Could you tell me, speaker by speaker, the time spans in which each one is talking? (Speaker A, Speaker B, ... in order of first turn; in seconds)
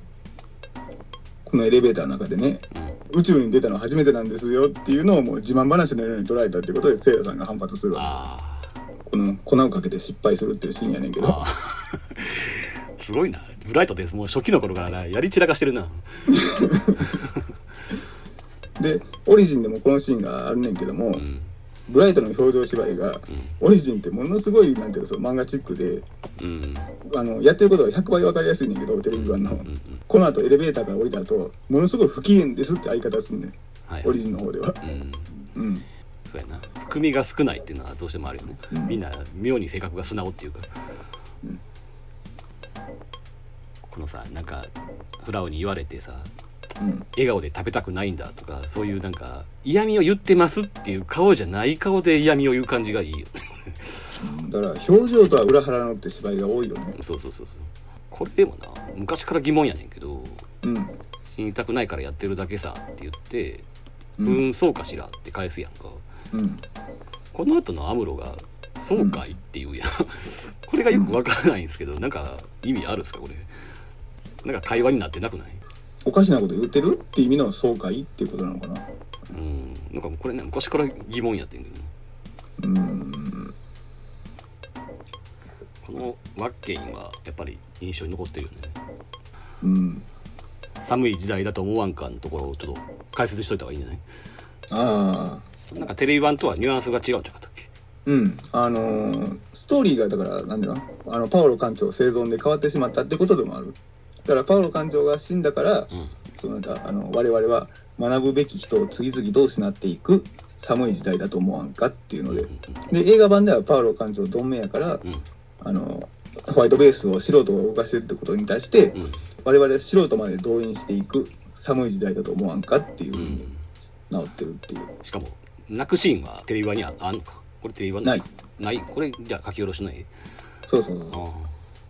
Speaker A: 1.4-8.2, 9.1-11.4, 16.3-17.1, 18.8-21.2, 21.9-26.0, 27.0-34.8, 35.4-35.9, 38.7-39.0, 46.8-47.0, 54.2-57.0, 60.6-61.0, 64.2-64.4, 66.3-66.6, 69.0-69.2, 76.0-78.8, 82.6-83.5, 89.6-90.0, 94.7-95.5, 98.0-115.0, 115.6-123.5, 124.1-124.9, 130.7-131.2
Speaker B: 7.9-8.7, 11.2-16.2, 17.1-17.4, 21.2-21.5, 26.4-26.9, 29.1-30.0, 33.9-34.2, 34.8-35.3, 36.2-40.7, 43.9-46.3, 47.1-54.1, 57.0-60.4, 61.2-63.6, 64.2-66.0, 67.3-73.5, 74.4-75.6, 79.3-81.9, 85.8-88.8, 90.8-94.0, 95.7-97.7, 112.3-112.8, 123.1-123.6, 125.0-130.1, 131.1-131.5